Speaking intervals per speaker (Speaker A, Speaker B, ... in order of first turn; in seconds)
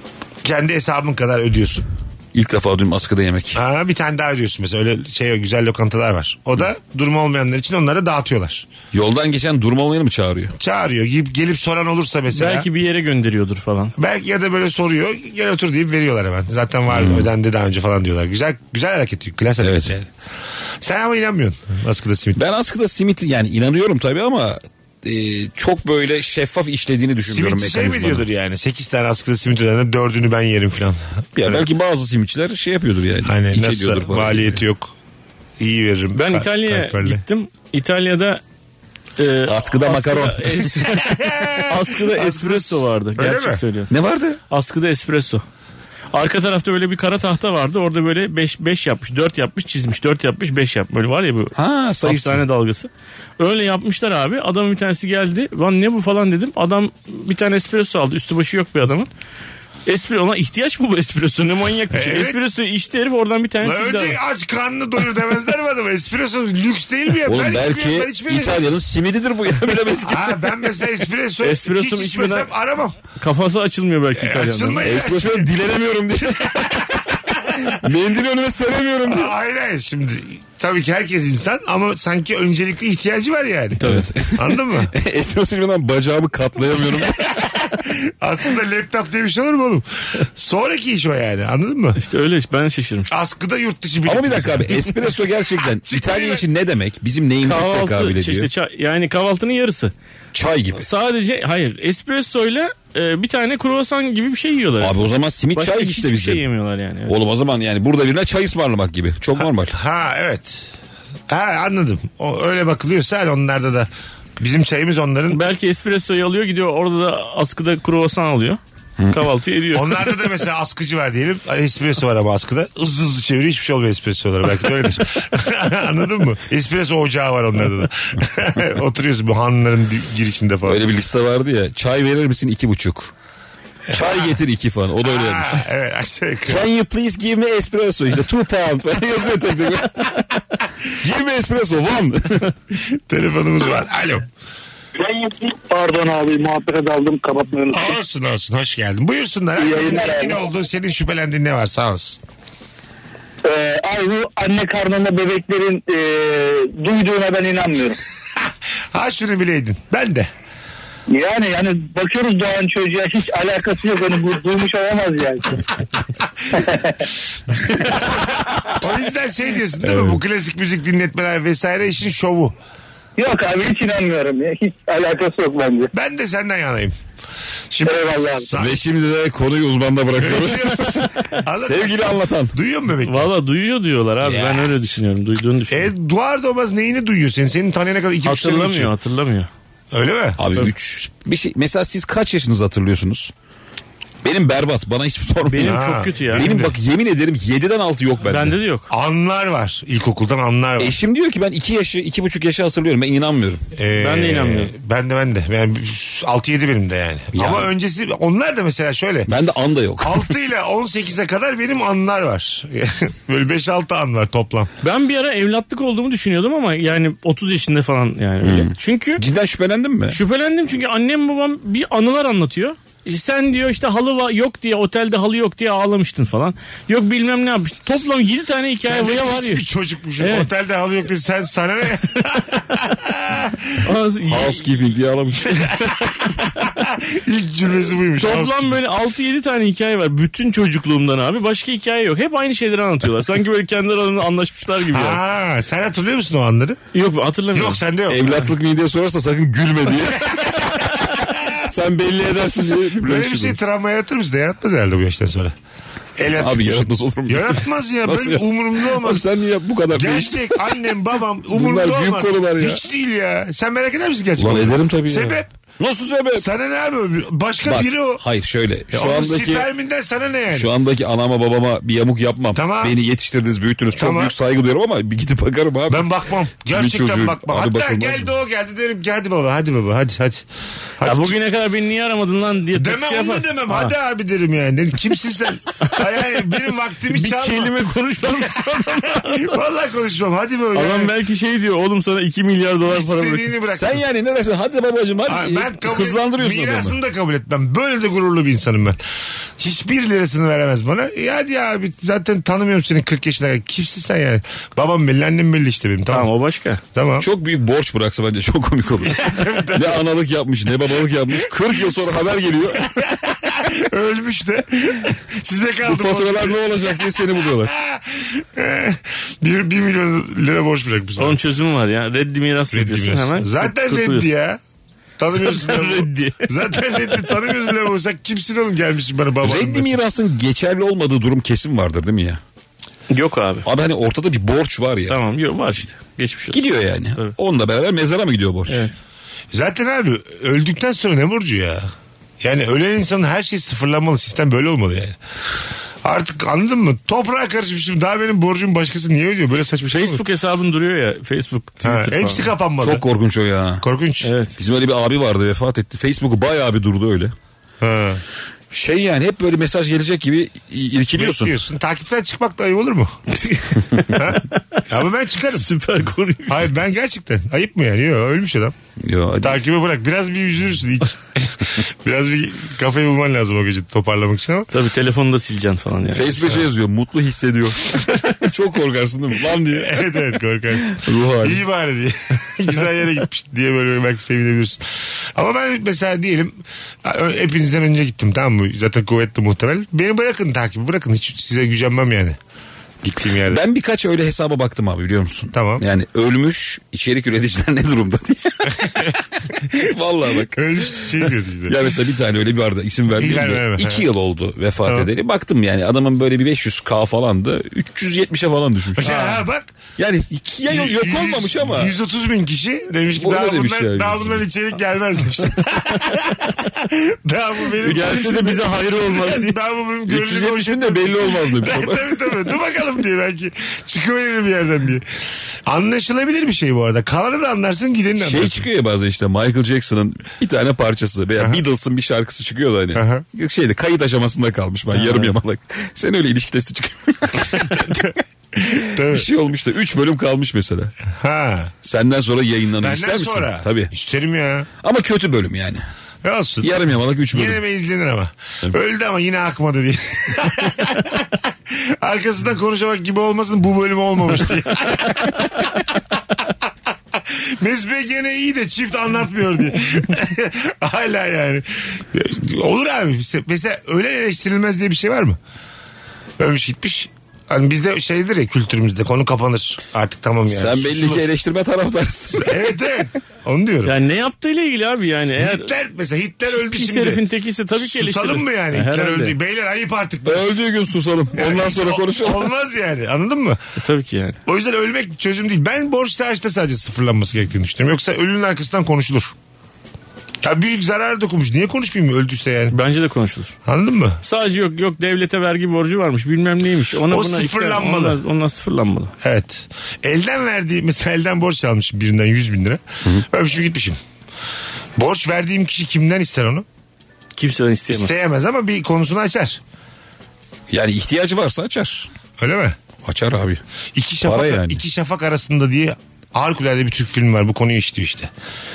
Speaker A: 0.4-1.9, 3.5-8.7, 10.6-12.7, 14.0-20.1, 20.8-22.4, 27.2-31.7, 33.2-34.9, 35.6-37.2, 40.9-43.6, 61.9-62.4, 63.6-68.6, 70.0-73.0, 74.2-75.5, 76.2-76.7, 79.0-84.9, 87.0-92.0, 93.1-94.8, 95.9-96.4, 109.7-110.7, 111.3-115.4, 119.7-130.8, 133.9-134.4, 135.0-136.6, 142.9-144.2, 147.7-152.2, 158.9-160.3, 168.7-172.5, 175.9-176.9, 177.7-178.8, 180.2-183.3, 184.2-184.8, 185.7-188.9, 189.9-190.4, 195.6-196.7, 198.9-200.9, 203.7-209.3, 210.0-214.7, 228.8-233.8, 236.7-238.7, 244.9-246.8, 247.5-248.5, 251.2-251.5, 253.0-255.5, 256.2-259.2, 259.9-265.5, 266.3-268.2, 268.9-270.7, 272.5-272.9, 273.9-274.3, 275.9-280.4, 281.0-281.4, 282.7-287.7, 289.1-291.1, 292.9-294.0, 295.3-299.0, 299.6-306.3, 306.9-307.3, 309.0-310.0, 311.8-312.1, 312.7-316.6, 317.6-321.4, 322.7-324.6, 325.2-330.0, 339.5-345.2, 346.0-350.2, 351.8-353.0, 353.8-354.3, 357.8-358.2, 361.1-363.2, 364.1-365.7, 366.5-368.7, 369.4-374.7, 379.7-392.4, 393.0-393.6, 395.5-395.8, 399.6-401.8, 403.1-404.0, 409.0-409.8, 410.7-425.0, 425.6-428.6, 432.9-433.2, 437.6-439.3, 441.1-441.7, 442.8-444.7, 446.2-446.8, 447.3-456.0, 457.1-465.4, 466.4-471.3, 472.3-473.9, 475.4-477.2, 477.8-480.5, 481.3-483.6, 484.4-489.3, 490.4-492.7, 493.6-494.2, 497.1-498.2, 499.2-504.0, 505.0-506.6, 507.9-509.6, 512.4-512.8, 513.9-518.3
Speaker B: 2.3-3.6, 8.9-10.5, 16.9-17.3, 19.6-19.9, 22.4-28.2, 31.3-34.6, 39.5-40.8, 43.9-44.4, 51.5-52.4, 67.2-70.6, 74.8-79.3, 83.8-87.5, 94.0-98.5, 100.3-100.8, 104.8-106.4, 107.1-109.8, 130.6-133.1, 133.9-135.7, 136.4-140.2, 140.9-142.5, 169.8-170.2, 178.6-182.6, 190.4-193.3, 194.2-198.6, 200.8-203.6, 207.3-207.7, 209.3-210.3, 218.4-220.2, 234.3-235.8, 248.1-253.6, 256.3-260.9, 261.5-262.8, 264.4-266.5, 267.6-269.7, 270.5-276.1, 276.7-278.3, 293.7-296.9, 307.2-312.9, 315.8-317.7, 329.4-332.4, 333.6-335.2, 336.5-338.9, 352.8-353.8, 354.6-357.3, 358.7-361.5, 369.0-369.6, 376.1-380.1, 380.9-381.6, 393.4-401.0, 401.7-409.4, 410.0-411.9, 413.2-414.4, 417.8-418.6, 420.1-422.2, 428.2-438.1, 438.7-440.9, 441.8-443.9, 444.8-445.8, 446.6-447.6, 470.5-472.7, 480.2-482.5, 510.7-512.1, 513.0-513.6, 514.2-514.8
Speaker C: 12.3-13.9, 36.1-38.4, 39.2-43.9, 44.5-45.4, 46.1-51.5, 52.0-59.1, 59.9-64.2, 71.4-72.5, 73.2-74.8, 83.8-84.1, 92.0-93.1, 97.4-99.9, 100.8-105.0, 105.5-107.1, 115.3-118.6, 119.1-120.1, 183.0-185.9, 188.2-189.5, 195.5-196.4, 198.2-198.9, 204.0-204.7, 214.8-219.2, 220.1-229.6, 230.2-230.5, 233.8-234.6, 238.2-245.2, 246.9-247.8, 281.0-283.9, 287.1-289.6, 290.7-293.5, 306.1-306.8, 321.2-324.3, 325.3-326.5, 333.1-333.6, 335.1-336.6, 338.7-338.9, 349.9-352.5, 354.2-354.6, 363.4-364.8, 365.5-366.6, 374.7-376.6, 417.9-419.6, 434.9-435.3, 473.8-475.7, 476.5-479.4, 483.8-484.4, 492.7-493.6, 494.2-499.1, 507.4-508.1
Speaker D: 145.0-147.9, 149.6-150.4, 153.4-158.0, 161.1-165.7, 166.5-167.0, 173.2-175.9, 177.8-178.5